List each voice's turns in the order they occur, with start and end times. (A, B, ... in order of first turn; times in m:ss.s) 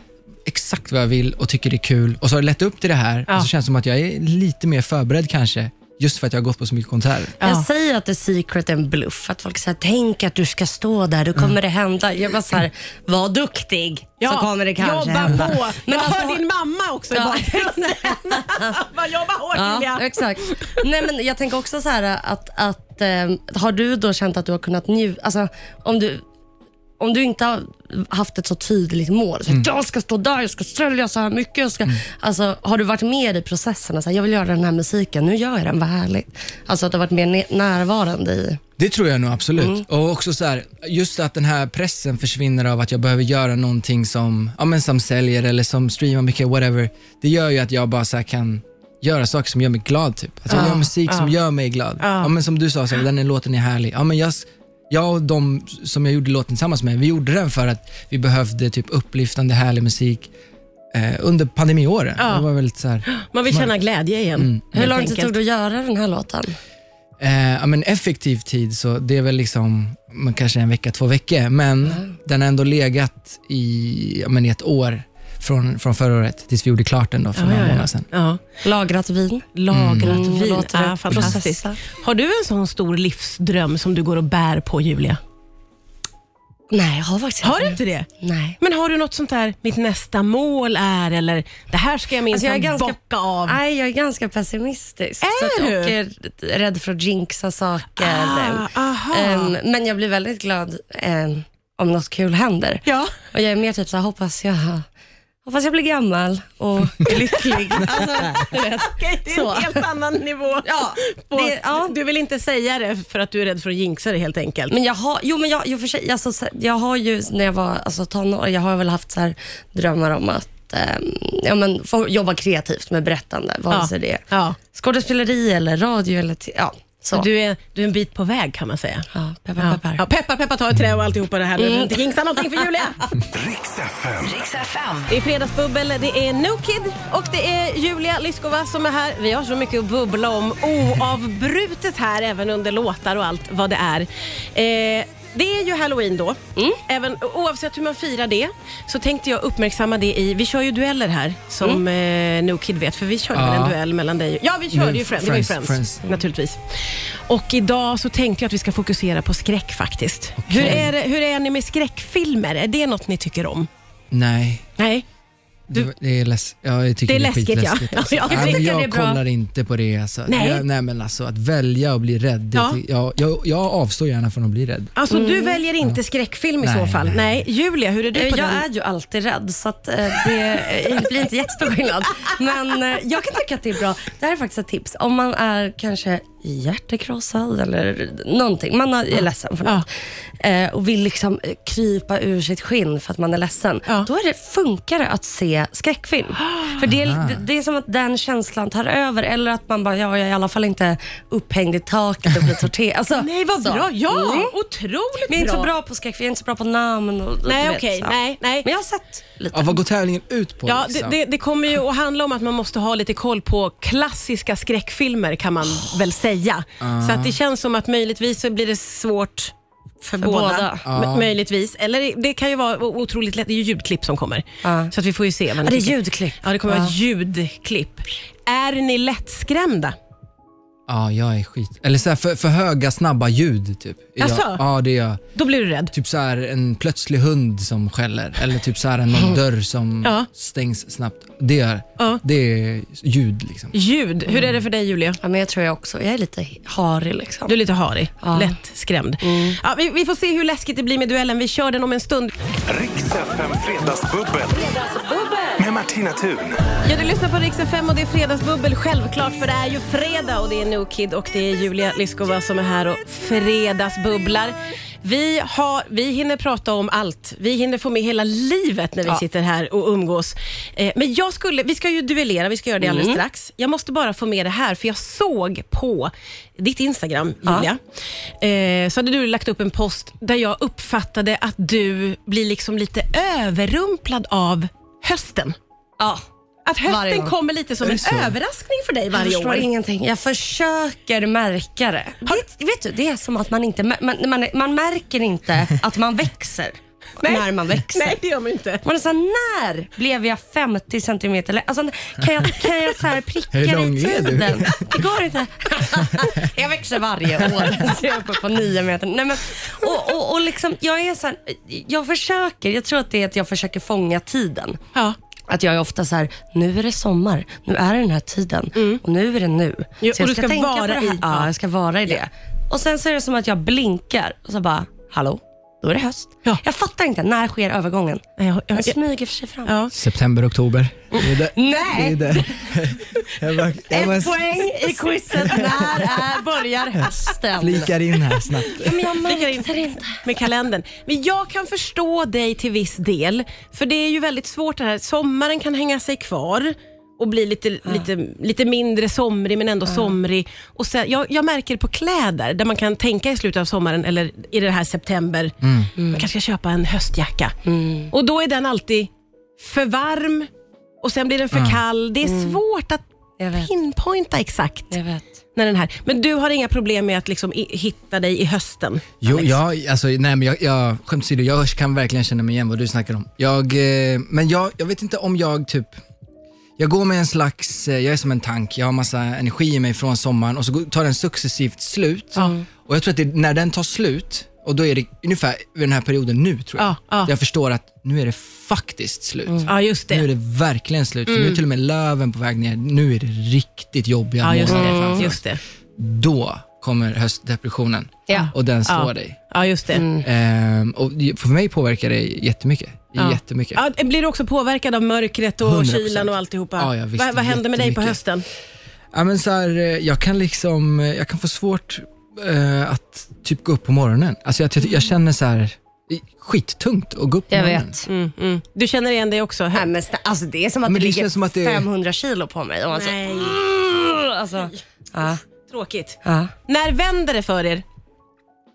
0:00.5-0:07.4 A
0:07.4-0:07.7 B
0:07.4-0:16.4 C
0:14.2-0:20.8 B
0:17.1-0:18.8 C
0:19.5-0:26.2 C
0:27.0-0:38.6 C
0:38.8-1:00.3 A
0:50.5-0:51.3 B
0:52.0-0:52.3 B
1:00.9-1:03.7 A
1:02.2-1:02.5 B
1:03.1-1:05.4 B
1:04.4-1:04.9 A
1:04.7-1:06.6 C
1:07.2-1:18.0 A
1:17.4-1:18.4 B
1:18.6-1:19.5 C
1:19.6-1:25.2 B
1:19.7-1:20.2 A
1:20.0-1:21.8 C
1:26.7-1:28.6 C
1:27.4-1:28.1 B
1:28.6-1:33.6 B
1:32.3-1:44.9 C
1:35.2-1:36.0 B
1:38.0-1:39.6 B
1:42.9-1:43.1 B
1:45.5-1:49.8 C
1:47.1-1:54.7 B
1:50.6-1:52.0 C
1:54.7-2:07.3 C
2:03.7-2:04.6 B
2:07.1-2:09.1 B
2:09.1-2:10.0 C
2:09.6-2:13.1 B
2:11.6-2:12.1 C
2:13.3-2:14.7 D
2:15.1-2:43.7 B
2:33.3-2:33.8 A
2:34.7-2:36.0 A
2:40.4-2:40.9 A
2:40.6-2:40.9 C
2:44.1-2:44.7 A
2:44.8-2:45.1 B
2:45.7-2:54.9 A
2:47.1-2:48.7 B
2:48.3-2:49.2 C
2:50.3-2:50.6 B
2:55.0-2:58.6 B
2:55.1-2:55.6 C
2:56.6-2:57.4 A
2:58.1-3:09.9 C
3:10.4-3:24.5 C
3:16.4-3:16.8 B
3:16.8-3:17.4 A
3:23.2-3:25.7 B
3:25.3-3:29.8 C
3:27.5-3:28.7 B
3:29.5-3:31.2 A
3:30.7-3:50.0 B
3:36.8-3:37.4 A
3:40.2-3:40.8 C
3:40.8-3:41.3 A
3:44.6-3:44.9 C
3:45.6-3:46.9 C
3:50.9-3:55.2 A
3:54.2-3:54.6 B
3:55.4-3:55.9 B
3:55.9-4:03.7 A
4:03.7-4:05.2 B
4:05.2-4:07.6 C
4:07.5-4:12.3 B
4:08.2-4:08.6 C
4:09.2-4:09.6 C
4:12.7-4:14.8 D
4:15.0-4:15.3 C
4:15.6-4:16.6 D
4:16.8-4:37.8 B
4:32.8-4:33.2 C
4:38.4-4:45.6 B
4:46.0-4:46.3 C
4:46.7-4:49.7 B
4:46.9-4:47.3 C
4:47.8-4:48.4 A
4:49.1-4:58.2 C
4:57.2-4:58.8 B
4:58.8-5:14.8 C
5:03.5-5:04.9 A
5:15.5-5:29.8 C
5:18.8-5:19.0 B
5:20.0-5:21.5 B
5:28.4-5:29.0 B
5:29.7-5:29.9 B
5:29.9-5:34.8 A
5:31.1-5:32.7 C
5:33.9-5:37.9 C
5:35.4-5:36.1 A
5:37.6-5:39.1 A
5:38.7-5:40.2 C
5:39.2-5:57.6 B
5:55.6-5:55.9 A
5:56.0-5:56.3 C
5:57.7-5:58.1 C
5:58.1-6:00.5 B
6:01.0-6:03.0 B
6:01.5-6:01.8 A
6:02.2-6:02.6 C
6:03.4-6:03.7 C
6:03.6-6:05.0 B
6:04.9-6:05.3 C
6:05.6-6:09.6 B
6:09.2-6:16.0 A
6:16.8-6:35.4 A
6:22.4-6:22.6 B
6:26.8-6:27.3 B
6:29.6-6:30.3 B
6:31.3-6:31.6 B
6:34.4-6:35.6 B
6:34.7-6:35.3 C
6:36.0-6:39.4 A
6:38.3-6:40.1 B
6:40.0-6:40.3 C
6:40.2-6:43.8 A
6:43.2-6:48.4 B
6:45.6-6:48.2 A
6:49.1-6:58.0 A
6:57.5-6:58.1 C
6:58.1-6:59.9 B
6:59.7-7:05.4 C
7:00.9-7:01.9 A
7:02.9-7:03.6 B
7:05.2-7:07.8 B
7:06.2-7:06.5 C